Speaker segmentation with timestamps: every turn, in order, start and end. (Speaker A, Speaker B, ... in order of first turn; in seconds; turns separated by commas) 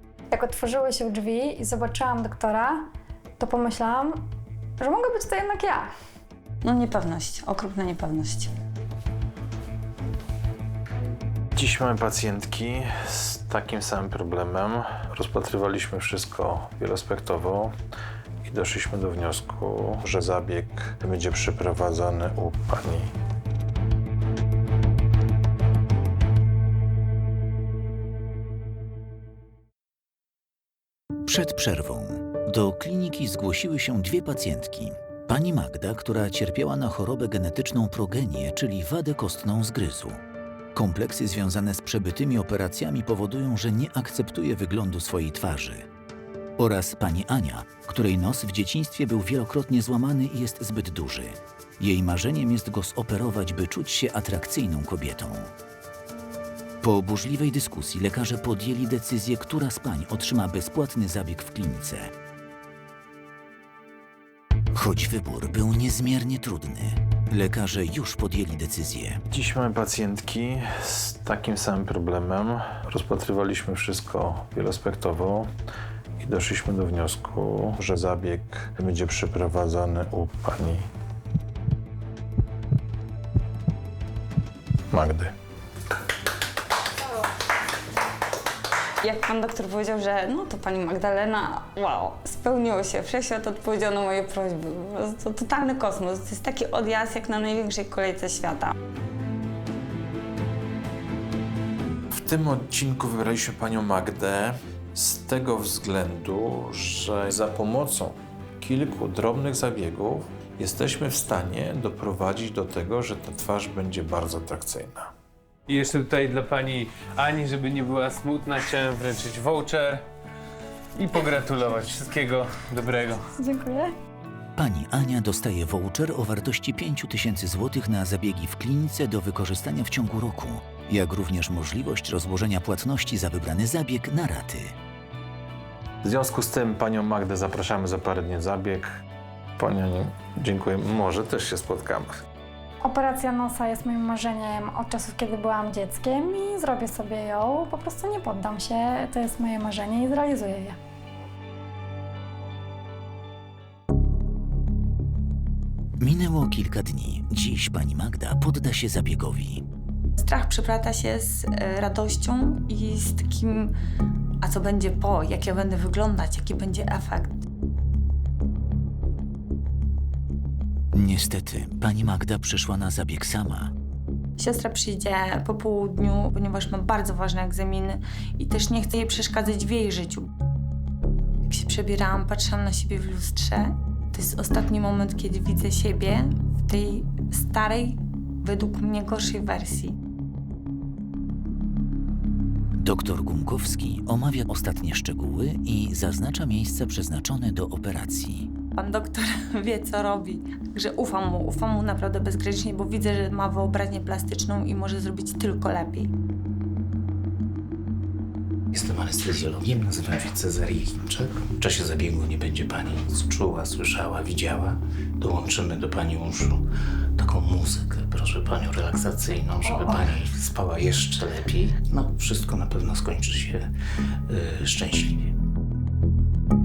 Speaker A: 0.3-4.2, Speaker A: 4.8-5.9, Speaker B: 6.6-8.5, Speaker C: 11.5-17.7, Speaker C: 18.4-23.1, Speaker D: 31.2-40.2, Speaker D: 40.7-45.9, Speaker D: 46.6-55.5, Speaker D: 56.8-62.1, Speaker D: 64.7-69.2, Speaker C: 69.3-75.5, Speaker C: 76.2-80.9, Speaker C: 84.9-85.3, Speaker B: 89.0-98.7, Speaker C: 102.1-115.1, Speaker E: 115.7-120.0, Speaker E: 121.0-123.3, Speaker A: 123.4-123.9, Speaker D: 124.5-134.8, Speaker C: 136.0-139.0, Speaker C: 139.6-142.2, Speaker A: 142.8-150.8, Speaker D: 156.0-159.6, Speaker B: 160.2-163.8, Speaker B: 164.4-167.4, Speaker D: 170.9-173.7, Speaker B: 174.4-180.3, Speaker B: 181.4-190.0, Speaker D: 192.8-198.5, Speaker B: 198.8-206.1, Speaker F: 208.7-216.6, Speaker F: 217.2-223.7, Speaker F: 224.3-225.3